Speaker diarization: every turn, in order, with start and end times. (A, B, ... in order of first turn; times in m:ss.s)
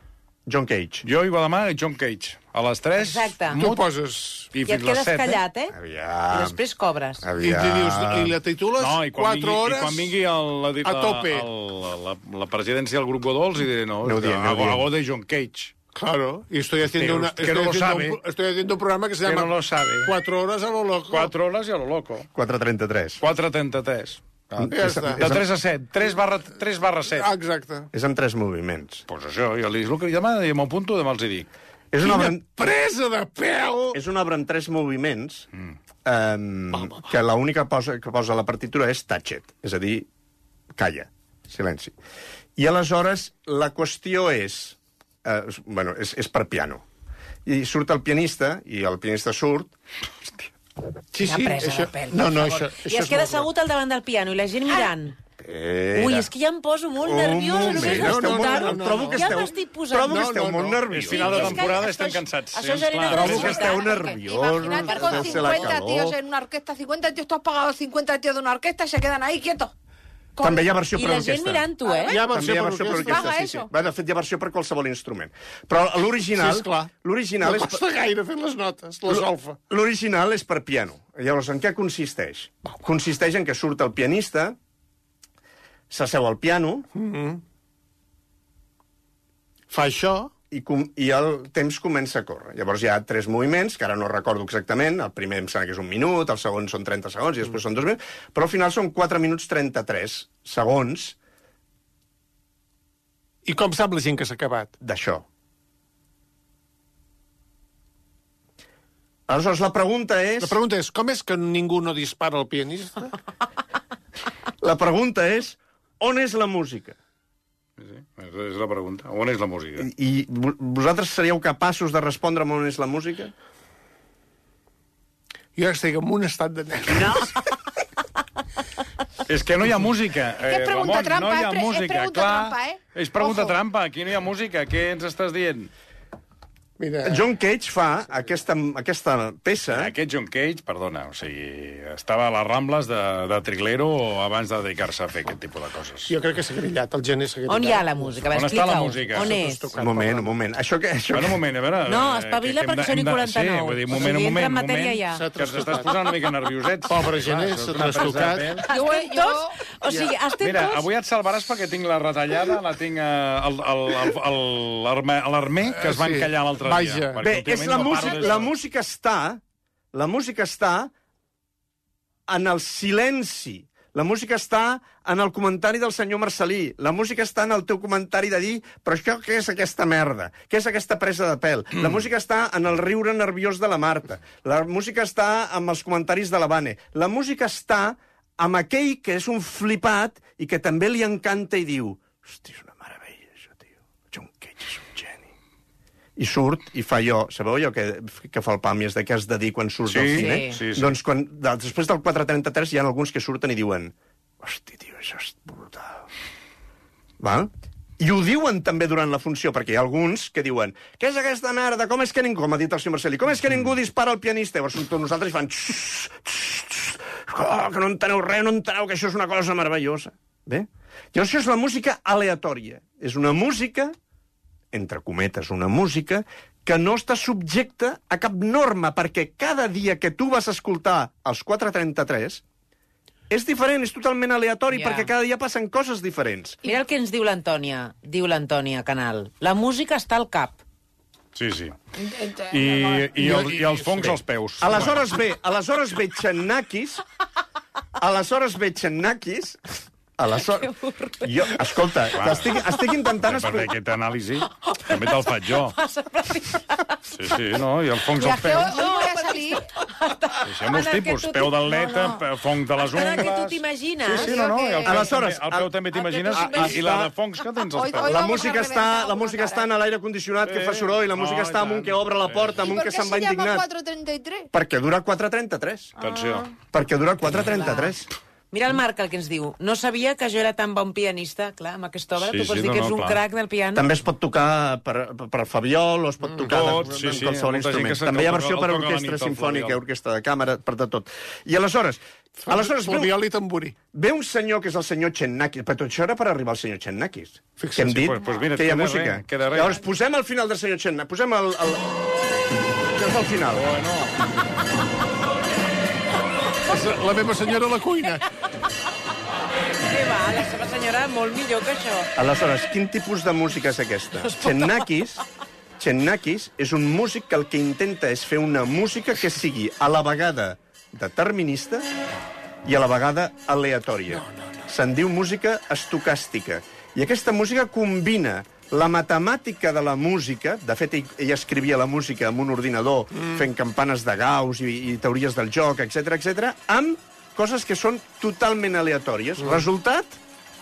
0:00.5-0:01.0 A
0:01.0-0:03.9 B
0:03.0-0:03.6 C
0:03.6-0:04.5 D
0:04.5-0:05.4 B
0:04.6-0:05.8 C
0:05.7-0:06.6 A
0:06.3-0:07.2 C
0:07.2-0:08.4 A
0:07.4-0:10.1 D
0:08.8-0:15.7 B
0:10.8-0:11.4 D
0:14.0-0:14.8 A
0:15.9-0:21.3 D
0:16.9-0:18.2 B
0:19.2-0:20.1 B
0:21.1-0:22.3 B
0:22.3-0:23.2 A
0:23.2-0:27.3 B
0:24.6-0:25.4 A
0:24.6-0:25.2 D
0:27.2-0:27.9 D
0:27.9-0:29.0 A
0:29.1-0:31.5 B
0:31.9-0:32.4 A
0:32.0-0:34.0 D
0:33.9-0:35.5 A
0:36.0-0:40.1 A
0:36.7-0:37.1 D
0:40.7-0:41.9 A
0:42.6-0:46.8 A
0:47.4-0:49.7 A
0:51.1-0:53.5 D
0:51.2-0:55.2 C
0:55.4-0:56.3 A
0:55.9-1:00.2 C
0:57.0-1:01.7 A
0:57.6-0:59.4 D
1:00.0-1:00.8 D
1:00.9-1:03.8 B
1:01.1-1:04.2 C
1:03.1-1:06.2 A
1:03.2-1:09.7 E
1:04.8-1:05.8 C
1:10.4-1:10.7 E
1:10.4-1:17.8 A
1:10.9-1:12.2 C
1:11.8-1:12.3 E
1:12.1-1:13.4 D
1:12.9-1:13.7 E
1:16.4-1:19.6 D
1:19.1-1:24.6 A
1:25.9-1:26.9 A
1:26.9-1:27.4 D
1:29.7-1:30.3 D
1:30.5-1:41.2 A
1:43.4-1:44.7 D
1:44.8-1:45.2 A
1:49.3-1:50.6 A
1:50.4-1:53.1 D
1:54.6-1:57.0 A
1:57.8-1:59.9 B
1:59.8-2:03.3 A
2:05.6-2:07.5 D
2:09.2-2:15.7 B
2:10.4-2:13.6 E
2:16.8-2:17.3 D
2:17.0-2:19.9 A
2:19.7-2:26.1 B
2:26.1-2:28.3 D
2:27.5-2:29.6 C
2:28.3-2:29.4 B
2:29.0-2:30.3 D
2:29.8-2:31.4 A
2:31.1-2:38.7 B
2:31.8-2:35.2 C
2:33.9-2:34.3 D
2:35.1-2:35.9 D
2:36.9-2:38.6 D
2:38.7-2:40.9 C
2:38.7-2:39.6 E
2:40.4-2:48.5 B
2:45.7-2:47.2 D
2:47.2-2:49.4 A
2:49.9-2:50.9 A
2:52.3-3:15.3 A
3:16.2-3:26.1 A
3:19.9-3:20.9 B
3:20.1-3:20.6 C
3:27.2-3:43.9 A
3:44.7-3:52.4 A
3:53.3-3:56.6 A
3:54.7-3:55.1 C
3:56.6-4:00.6 C
4:01.3-4:01.8 B
4:02.0-4:03.0 E
4:02.5-4:05.1 B
4:03.1-4:04.2 D
4:04.6-4:07.0 A
4:08.0-4:09.6 A
4:10.2-4:10.7 A
4:10.4-4:11.6 C
4:11.2-4:13.7 A
4:12.2-4:12.5 B
4:13.2-4:15.8 B
4:14.6-4:17.3 C
4:17.1-4:18.8 B
4:18.2-4:19.6 E
4:18.4-4:22.1 C
4:20.4-4:28.2 B
4:22.8-4:25.1 C
4:24.1-4:25.0 E
4:24.8-4:25.7 A
4:25.9-4:26.8 C
4:26.3-4:27.1 A
4:27.7-4:29.7 E
4:28.0-4:33.6 A
4:30.4-4:32.7 B
4:32.6-4:34.5 E
4:34.5-4:35.9 A
4:36.0-4:36.5 B
4:36.0-4:36.5 E
4:36.7-4:38.1 A
4:37.5-4:37.9 C
4:38.5-4:43.9 C
4:42.2-4:43.2 B
4:43.7-4:53.2 A
4:46.2-4:46.8 D
4:46.5-4:49.8 B
4:52.4-4:53.8 D
4:53.9-5:01.9 A
4:57.6-4:58.1 D
4:57.8-4:59.8 B
5:02.9-5:03.6 A
5:03.5-5:04.2 B
5:06.6-5:08.2 D
5:09.8-5:12.1 C
5:12.2-5:15.2 A
5:15.8-5:21.9 A
5:22.6-5:40.2 A